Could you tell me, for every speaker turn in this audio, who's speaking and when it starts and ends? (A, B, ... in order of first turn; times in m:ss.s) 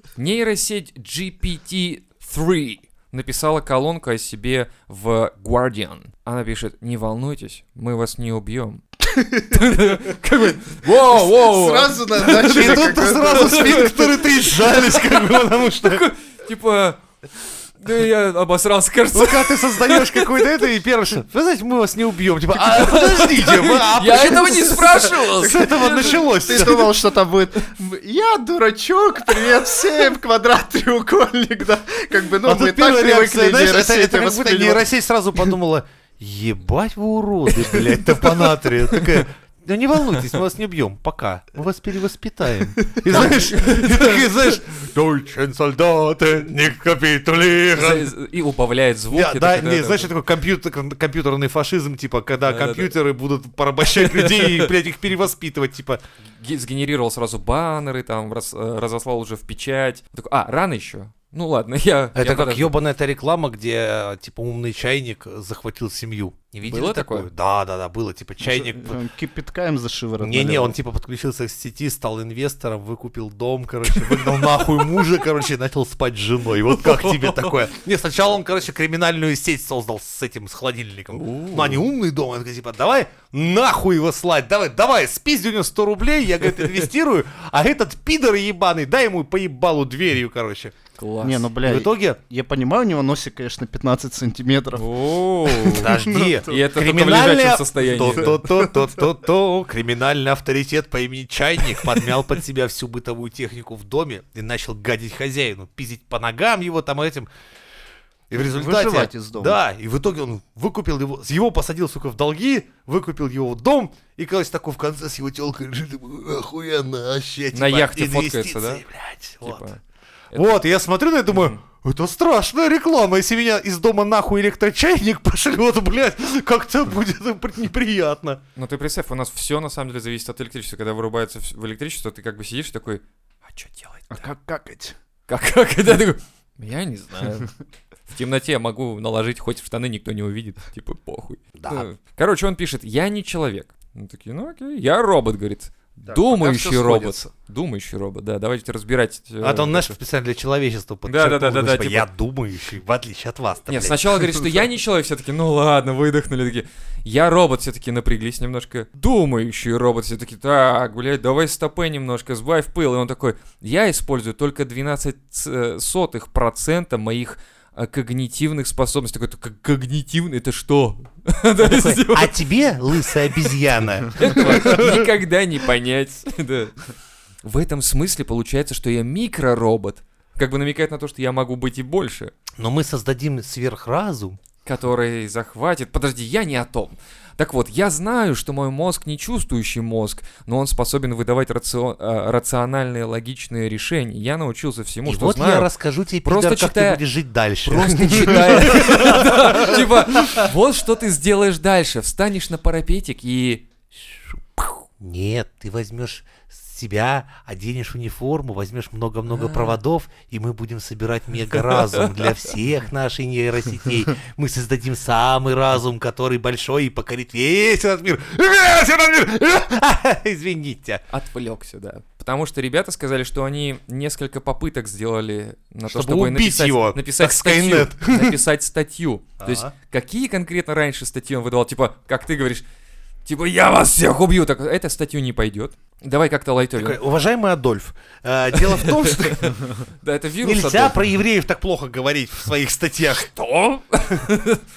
0:00.2-0:08.8 A
0:09.1-0:10.1 B
0:09.5-0:17.0 A
0:11.1-0:14.0 B
0:12.3-0:16.1 C
0:17.8-0:20.6 A
0:19.1-0:26.9 C
0:22.5-0:26.9 A
0:26.4-0:34.8 B
0:32.4-0:48.1 C
0:39.0-0:39.2 A
0:43.1-0:44.2 A
0:47.7-0:50.1 A
0:49.1-0:56.0 C
0:52.4-0:52.9 A
0:53.9-0:54.7 A
0:56.4-1:02.7 A
1:02.1-1:09.0 C
1:06.6-1:07.3 A
1:08.8-1:10.7 B
1:10.2-1:30.7 C
1:14.0-1:14.8 A
1:16.7-1:17.6 A
1:21.1-1:21.8 A
1:31.0-1:31.5 A
1:31.2-1:34.9 B
1:31.6-1:32.2 C
1:34.7-1:38.4 A
1:35.4-1:36.7 B
1:35.7-1:47.3 C
1:38.3-1:39.0 B
1:48.3-1:59.6 C
1:48.3-1:49.6 B
1:57.5-1:58.8 A
1:59.4-1:59.8 A
2:00.3-2:08.4 C
2:01.3-2:01.6 A
2:08.6-2:14.2 A
2:14.1-2:14.9 B
2:15.3-2:17.5 A
2:18.1-2:30.0 A
2:21.6-2:21.9 C
2:26.0-2:27.3 B
2:29.4-2:34.4 C
2:31.0-2:32.0 A
2:33.7-2:53.6 A
2:51.6-2:55.1 C
2:54.2-2:56.9 A
2:57.4-3:02.3 A
3:02.6-3:04.4 C
3:04.6-3:15.7 A
3:15.0-3:19.9 C
3:16.2-3:17.0 A
3:17.6-3:23.6 A
3:24.6-3:41.0 C
3:29.3-3:29.8 A
3:31.6-3:32.5 A
3:41.1-3:52.6 A
3:45.9-3:48.4 C
3:49.4-3:49.7 C
3:53.2-3:57.0 A
3:56.7-3:59.7 C
3:58.5-4:01.0 A
4:00.4-4:03.3 C
4:03.3-4:04.6 A